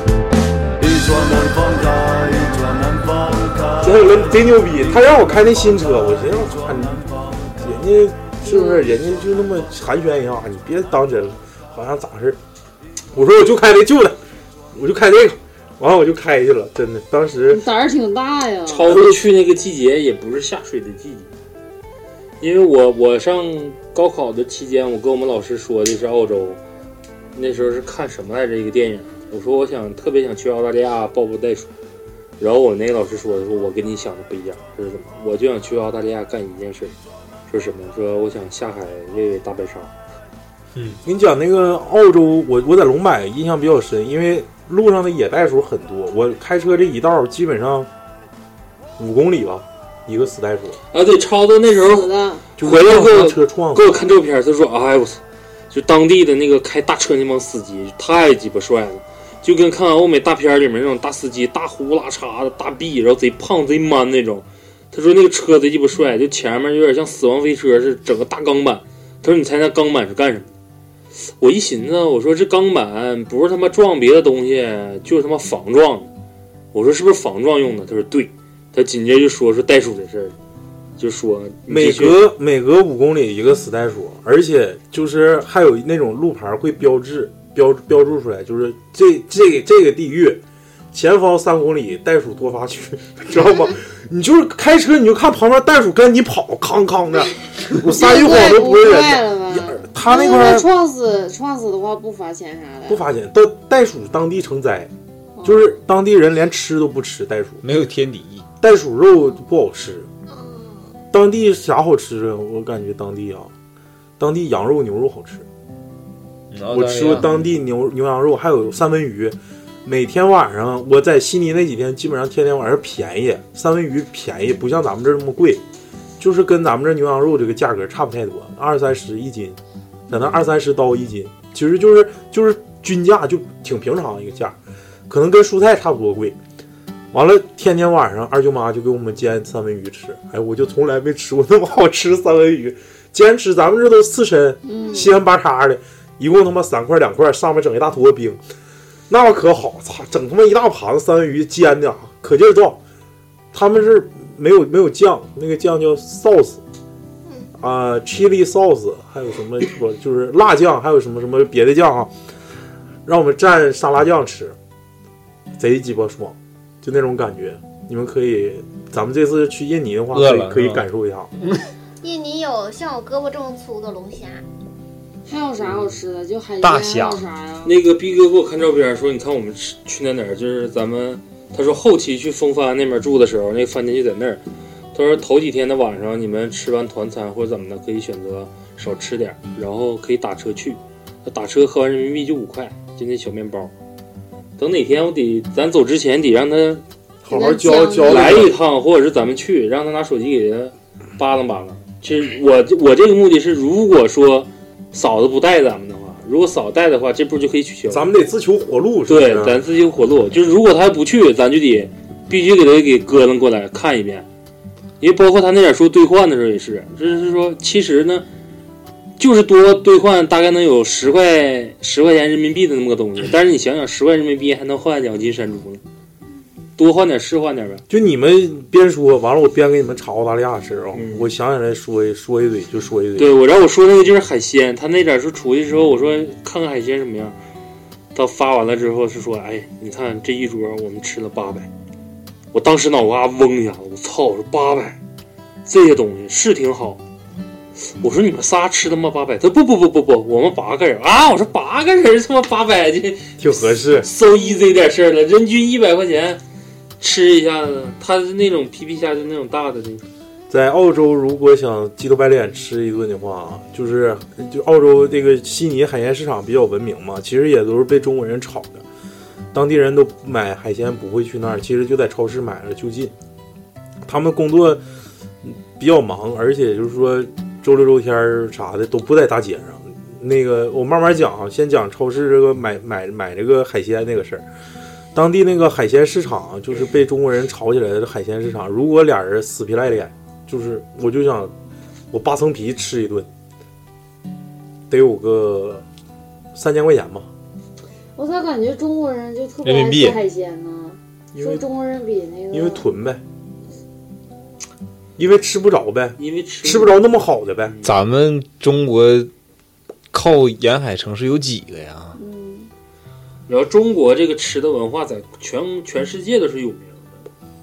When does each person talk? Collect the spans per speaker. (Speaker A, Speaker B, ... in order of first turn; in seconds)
Speaker A: 0.8-7.6
Speaker B: 3.8-7.1, 7.6-12.4, 13.1-14.2, 14.7-17.6, 41.0-47.9, 49.0-50.8, 52.6-54.1, 81.7-100.7, 102.9-104.9, 105.4-107.6, 108.6-110.1, 111.1-113.5, 114.2-115.5, 116.7-125.6, 126.2-129.6, 130.1-134.6, 135.1-136.4, 137.1-148.4, 149.1-152.8, 153.5-156.6, 157.6-162.1, 163.1-164.6, 165.6-171.3, 197.2-198.6, 207.9-209.6, 227.9-233.3, 253.4-254.1, 260.5-268.8, 269.5-273.1, 274.0-274.8, 275.4-284.5, 285.1-291.5, 292.1-293.3, 294.9-295.8, 296.5-297.3, 301.3-301.6, 302.5-303.2, 305.2-307.8
Speaker C: 8.4-8.9, 17.5-19.0, 51.8-52.5, 97.9-103.0, 105.4-105.7, 144.7-145.2, 175.3-177.8, 197.3-198.4, 298.2-302.9, 312.1-312.7
Speaker D: 18.7-21.3, 22.4-26.6, 27.4-31.7, 32.4-37.0, 37.5-39.9, 50.9-55.2, 55.7-70.5, 71.4-76.1, 76.7-80.3, 81.0-82.2, 177.7-184.4, 184.9-193.7, 194.6-196.8, 198.1-208.1, 209.1-214.3, 215.0-218.3, 219.2-225.8, 226.8-227.8, 230.9-231.3, 233.2-237.4, 238.1-241.7, 242.5-245.0, 245.7-247.0, 248.0-256.4, 257.0-260.1, 306.2-307.0, 313.5-317.2
Speaker E: 107.6-108.5, 116.5-117.4, 170.1-170.8, 171.4-171.7, 176.6-177.2, 299.6-300.2, 307.8-309.3, 310.1-312.2
Speaker F: 110.3-110.9, 172.0-174.4